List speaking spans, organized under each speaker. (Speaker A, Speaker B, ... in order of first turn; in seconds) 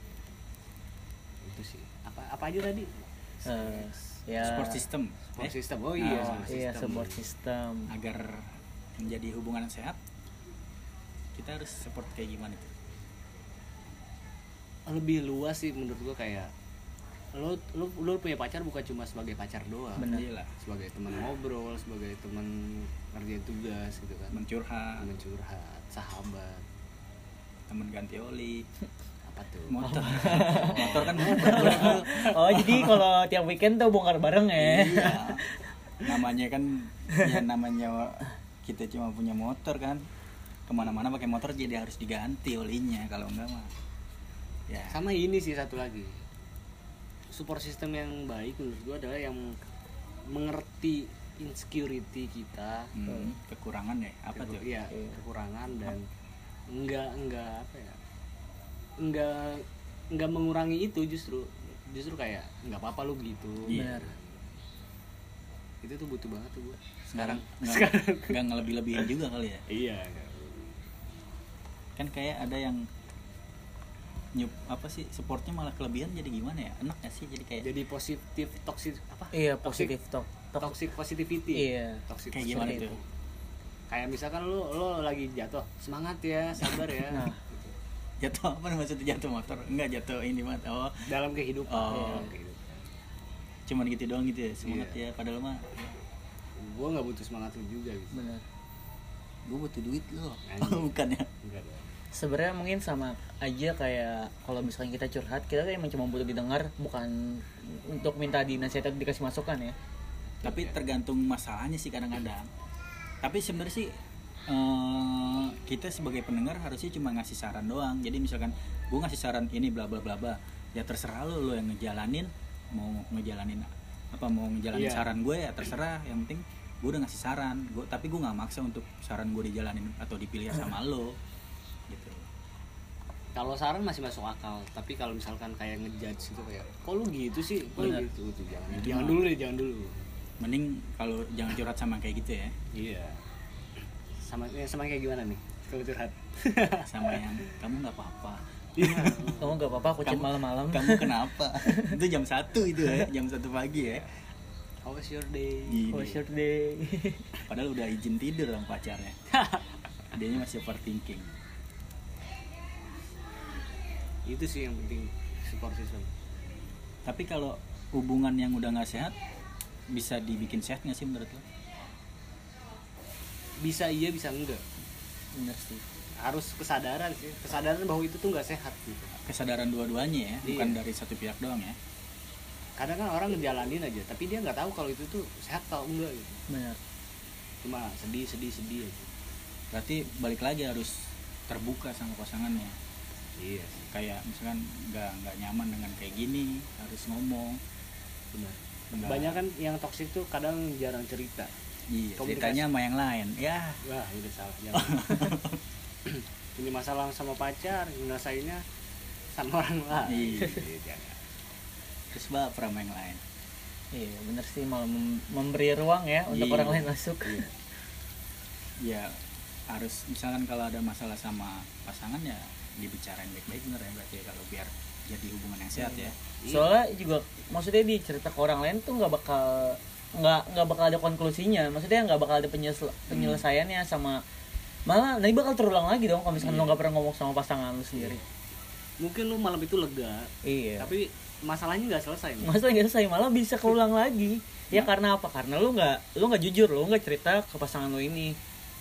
Speaker A: 1.4-4.7, 5.3-7.2, 14.9-16.5, 17.3-24.4, 25.0-26.6, 29.2-32.4, 44.9-46.2, 47.3-49.6, 50.3-52.9, 54.3-56.1, 56.7-58.0, 59.0-64.4, 65.8-68.4, 69.7-70.8, 77.6-79.9, 80.6-83.0, 83.9-87.7, 91.0-92.9, 94.6-95.0, 96.6-98.2, 100.5-102.0, 110.4-110.8, 124.7-125.1, 133.3-140.0, 142.7-143.2, 144.2-147.5, 148.8-149.6, 154.8-156.2, 159.3-159.7, 164.2-166.1, 173.6-174.6, 176.2-179.2, 180.4-180.8, 182.8-186.4, 187.6-189.1, 193.4-193.9, 198.3-201.5, 202.2-202.6, 203.8-205.3, 206.0-208.6, 209.3-211.3, 217.2-217.5, 226.4-226.7, 237.9-238.2, 239.0-242.6
Speaker B: 3.4-4.8, 6.0-7.9, 20.0-20.3, 29.8-35.6, 53.1-53.3, 54.9-55.2, 63.7-64.1, 79.3-80.7, 81.5-82.9, 87.1-87.4, 91.9-92.3, 98.1-98.4, 102.1-109.8, 149.4-152.0, 155.9-157.3, 175.3-175.8, 186.5-186.8, 213.9-217.4, 225.8-234.2, 234.9-238.2, 240.4-240.9, 242.4-248.4
Speaker C: 4.4-6.5, 7.9-10.0, 11.3-12.7, 20.1-20.5, 24.3-25.1, 27.7-28.6, 29.7-33.0, 34.6-35.4, 36.0-40.0, 40.7-43.7, 44.7-45.0, 52.9-54.6, 63.7-63.9, 67.1-69.6, 72.0-72.8, 74.3-77.7, 82.3-83.0, 86.6-86.8, 88.2-91.0, 91.7-92.2, 93.7-95.9, 99.5-101.3, 110.4-112.5, 113.2-131.2, 131.9-132.2, 137.8-138.0, 138.7-139.2, 140.4-142.5, 146.8-149.3, 150.0-154.1, 155.7-156.2, 157.5-159.2, 160.1-161.3, 167.1-169.2, 169.9-171.4, 179.2-181.8, 189.7-192.8, 193.9-197.6, 198.9-199.4, 201.9-203.8, 204.7-205.6, 210.0-210.6, 212.1-213.2, 216.3-216.9, 218.8-226.2, 233.1-233.4